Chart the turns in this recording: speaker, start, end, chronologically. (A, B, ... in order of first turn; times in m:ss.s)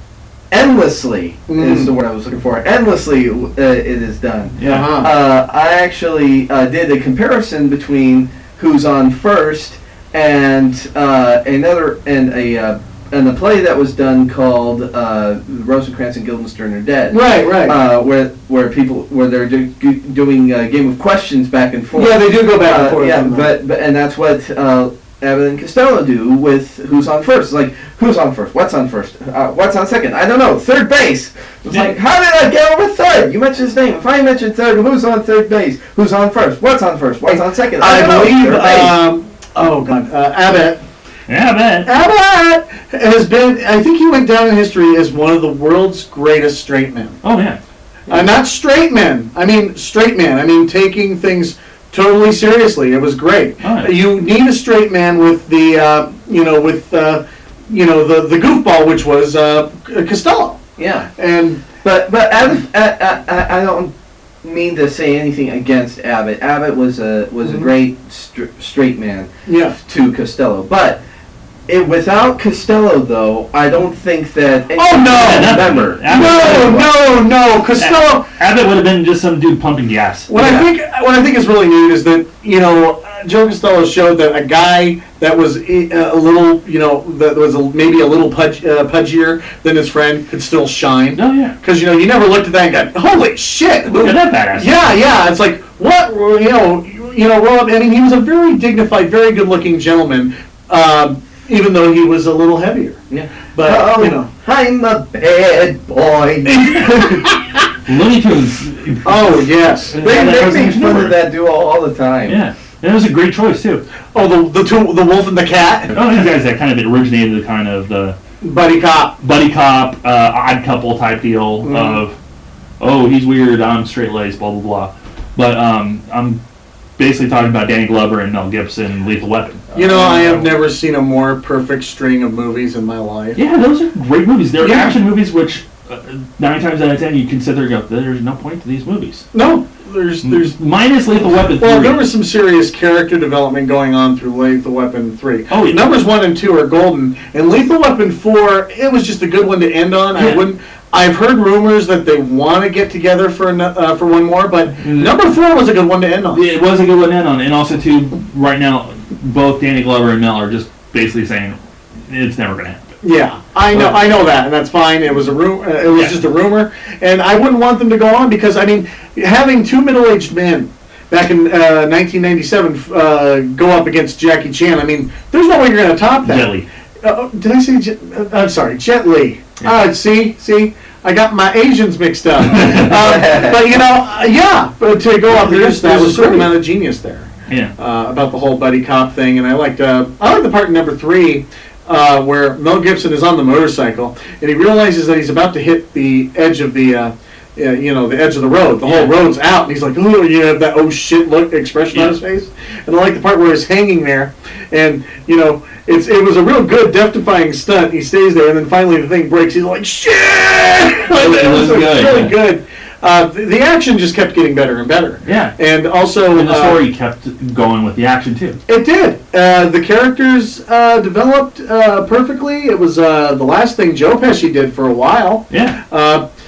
0:00.5-0:39.0 A
0:01.5-0:01.9 B
0:04.6-0:04.9 C
0:04.6-0:05.1 B
0:17.1-0:17.8 B
0:21.9-0:23.5 B
0:37.3-0:40.8 B
0:41.3-0:41.9 C
0:41.8-0:47.2 B
0:47.2-0:47.6 C
0:48.1-1:00.6 B
0:53.6-0:54.0 C
1:00.8-1:01.1 A
1:01.2-1:01.6 B
1:01.8-1:11.0 A
1:09.5-1:09.8 B
1:11.7-1:17.0 A
1:14.8-1:18.3 B
1:15.1-1:17.0 C
1:17.8-1:20.3 C
1:20.3-1:43.0 B
1:20.4-1:20.7 A
1:31.2-1:31.6 C
1:33.9-1:34.9 C
1:43.1-1:46.9 A
1:43.5-1:44.3 B
1:46.4-1:47.6 B
1:47.9-1:51.2 C
1:49.0-1:50.0 B
1:50.0-1:52.4 A
1:52.3-1:53.8 C
1:54.1-1:55.9 B
1:55.9-1:58.2 C
1:58.4-1:59.2 B
1:59.2-2:02.2 C
2:01.6-2:02.0 B
2:02.8-2:06.4 C
2:07.0-2:10.4 C
2:09.7-2:13.4 B
2:09.8-2:10.2 A
2:13.4-2:19.3 C
2:14.6-2:15.0 B
2:19.3-2:20.6 B
2:20.2-2:22.0 C
2:21.6-2:36.4 B
2:25.5-2:26.0 C
2:30.2-2:30.5 C
2:34.8-2:35.2 C
2:36.3-2:42.9 C
2:43.0-3:36.8 B
2:43.7-2:44.0 C
2:56.2-2:56.7 C
3:02.5-3:02.9 C
3:02.7-3:03.7 A
3:05.5-3:06.4 C
3:05.5-3:06.4 A
3:07.5-3:07.7 C
3:18.8-3:19.1 C
3:31.1-3:32.4 C
3:35.2-3:35.6 C
3:36.3-3:38.6 C
3:38.7-3:46.2 B
3:45.5-3:45.8 C